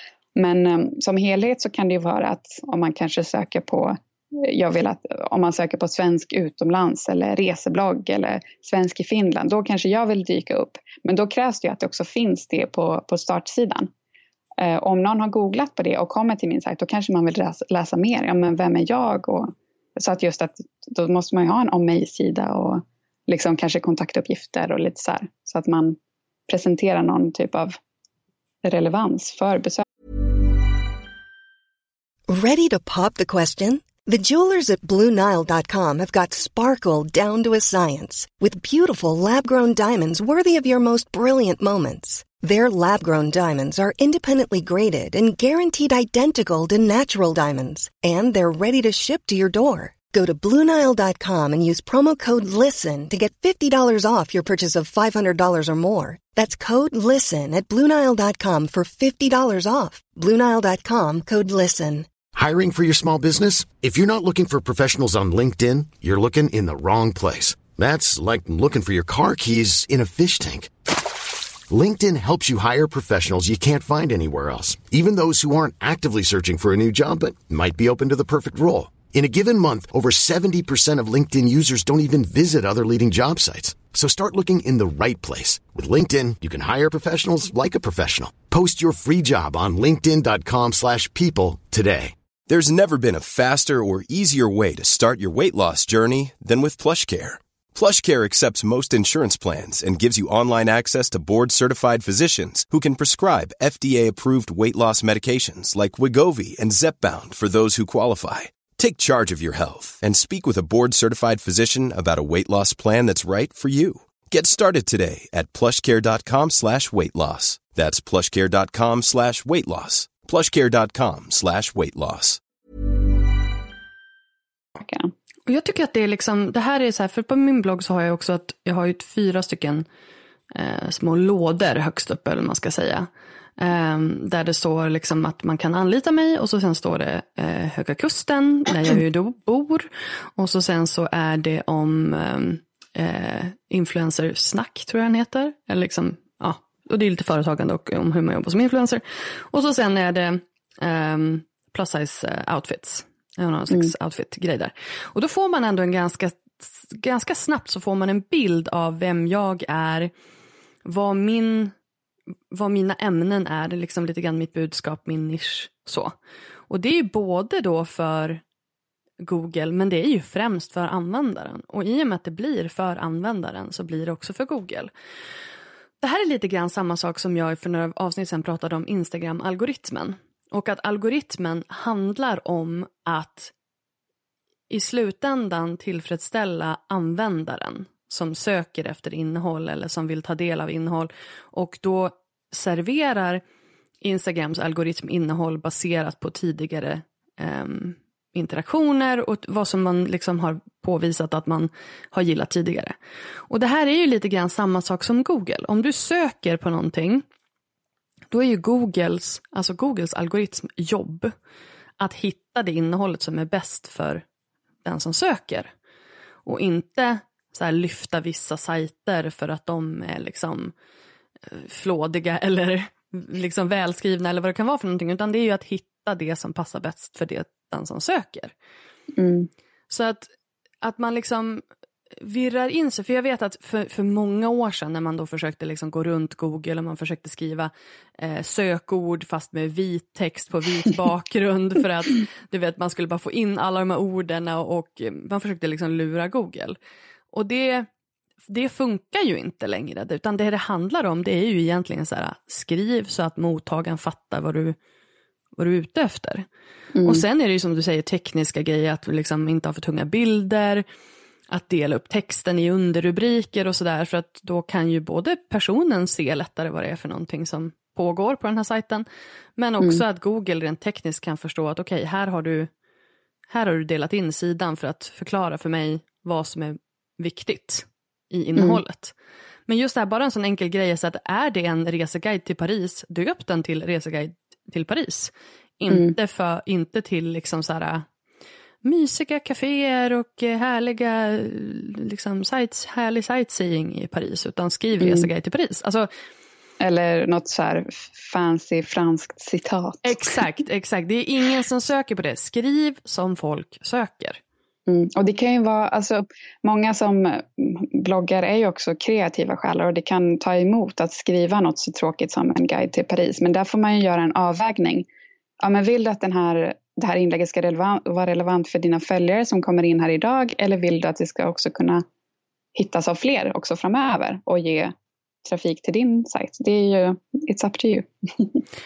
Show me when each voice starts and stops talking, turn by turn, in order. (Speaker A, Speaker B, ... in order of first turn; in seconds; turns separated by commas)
Speaker A: 0.3-13.9, Speaker A: 14.6-26.0, Speaker A: 26.5-27.8, Speaker A: 28.6-29.8, Speaker B: 32.3-62.1, Speaker C: 62.3-70.7, Speaker C: 71.7-92.1, Speaker D: 92.5-122.4, Speaker A: 124.8-125.1, Speaker E: 125.5-129.8, Speaker E: 130.5-160.1, Speaker E: 160.8-161.7, Speaker E: 162.5-166.1, Speaker E: 166.7-168.4, Speaker E: 169.2-174.9, Speaker E: 176.0-183.5, Speaker E: 184.7-193.4, Speaker E: 194.0-202.9, Speaker E: 203.5-207.2, Speaker E: 208.3-211.3, Speaker E: 212.0-214.2, Speaker E: 214.8-215.7, Speaker E: 216.4-220.7, Speaker E: 221.5-228.5, Speaker A: 229.1-229.5, Speaker E: 229.9-230.3, Speaker E: 230.8-231.6, Speaker E: 232.2-246.8, Speaker E: 247.3-247.9, Speaker E: 248.5-254.8, Speaker E: 255.6-256.4, Speaker A: 256.9-257.2, Speaker E: 257.0-260.8, Speaker E: 261.5-269.0, Speaker E: 269.6-272.7, Speaker E: 273.5-279.1, Speaker E: 279.7-288.0, Speaker A: 285.9-286.1, Speaker E: 288.8-296.1, Speaker A: 295.0-295.3, Speaker A: 296.8-300.4, Speaker E: 300.0-304.4, Speaker A: 304.9-315.1, Speaker A: 315.6-322.0, Speaker A: 322.7-328.6